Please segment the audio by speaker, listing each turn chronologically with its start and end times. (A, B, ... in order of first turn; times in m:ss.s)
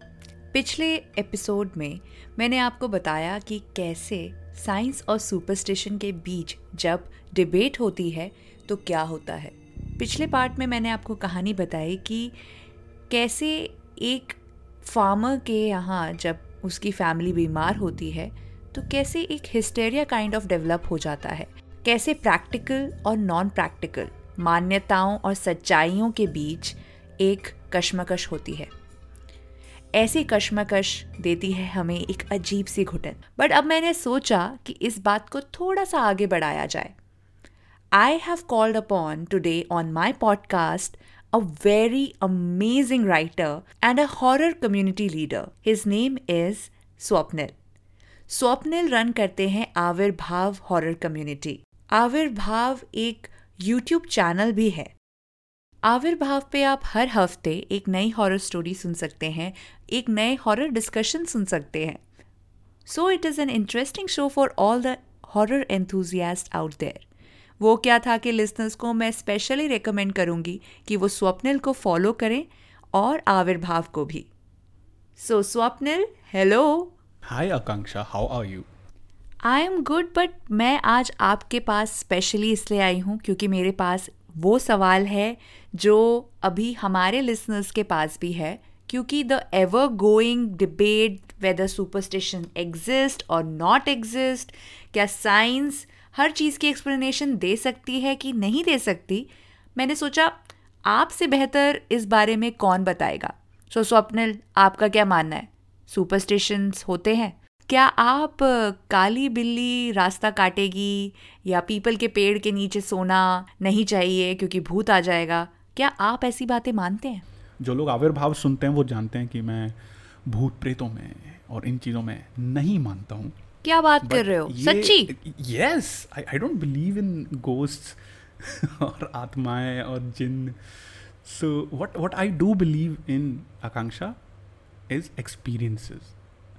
0:00.5-0:12.4 A
0:13.1-0:28.7 A
0:29.9-0:36.9 A
0:37.9-0:47.6 A
0:48.3-0:54.9 A
0:55.8-1:02.0 A
1:02.8-1:07.0 A
1:07.6-1:14.3 A
1:15.2-1:16.9 A
1:17.2-1:18.7 B
1:19.4-1:57.2 A
1:57.6-2:03.4 B
2:03.6-2:05.1 A
2:04.0-2:14.2 B
2:14.9-2:16.2 B